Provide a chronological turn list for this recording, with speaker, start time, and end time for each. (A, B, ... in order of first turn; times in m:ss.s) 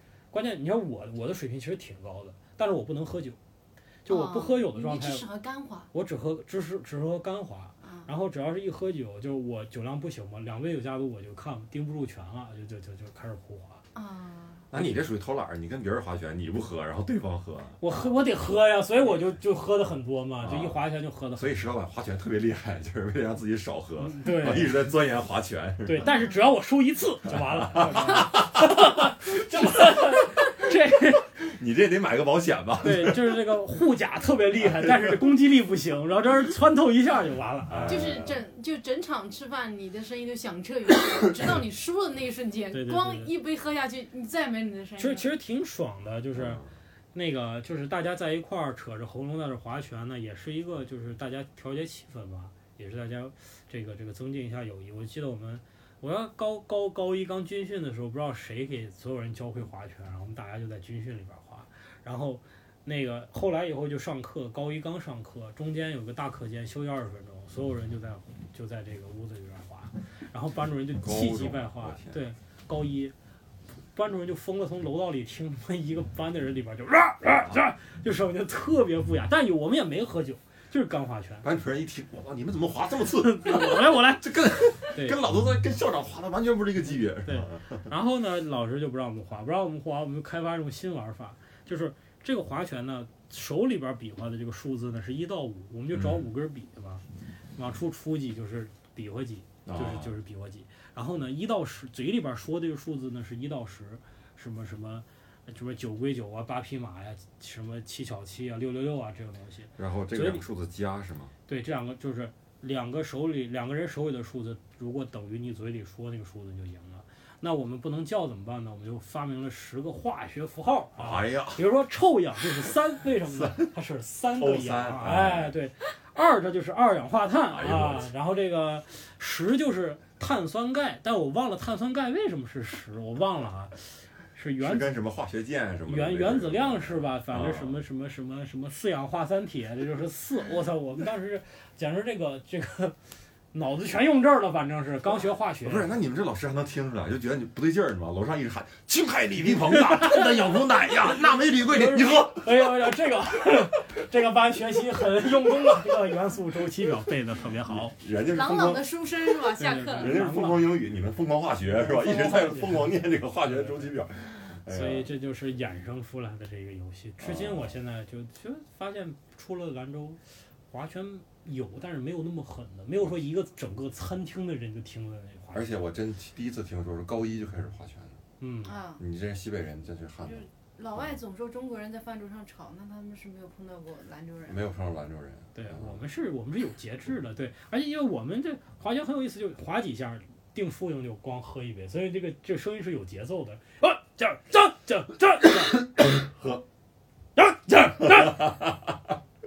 0:00.3-0:03.4 A
0:04.0-0:05.2 A
0:04.1-0:05.9 B
0:05.9-0:13.8 A
0:07.8-0:08.1 B
0:13.9-0:14.6 B
0:14.7-0:18.1 C
0:17.8-0:21.6 A
0:20.4-0:20.8 C
0:21.4-0:26.1 C
0:24.0-0:24.8 A
0:25.8-0:31.3 A
0:26.0-0:26.4 B
0:27.3-0:30.0 C
0:31.3-0:33.3 C
0:32.8-0:38.2 A
0:34.6-0:35.2 C
0:37.7-0:38.4 C
0:37.9-0:45.3 B
0:42.7-0:43.3 A
0:45.0-1:13.1 A
0:46.3-0:46.7 C
1:11.0-1:12.2 C
1:13.9-1:21.4 A
1:21.4-1:27.9 C
1:23.2-1:25.2 A
1:27.2-1:37.0 A
1:35.9-1:36.2 C
1:37.6-1:50.4 A
1:39.6-1:40.1 C
1:49.8-1:51.3 C
1:51.5-2:14.9 A
2:01.0-2:01.6 C
2:03.2-2:03.7 C
2:04.4-2:05.5 C
2:07.5-2:08.1 C
2:14.6-2:17.8 C
2:15.9-2:23.0 A
2:23.5-2:25.9 A
2:25.6-2:32.7 C
2:29.7-2:30.4 A
2:31.4-2:38.0 A
2:37.7-2:45.1 C
2:38.2-2:40.2 B
2:39.6-2:40.7 A
2:41.6-2:43.9 A
2:44.7-2:55.7 A
2:47.2-2:47.7 C
2:55.5-2:58.2 C
2:58.4-2:58.8 A
2:58.6-2:59.0 B
2:59.0-3:01.2 C
3:00.2-3:04.6 B
3:04.5-3:06.0 C
3:05.5-3:16.0 A
3:16.3-3:16.6 C
3:17.4-3:18.7 A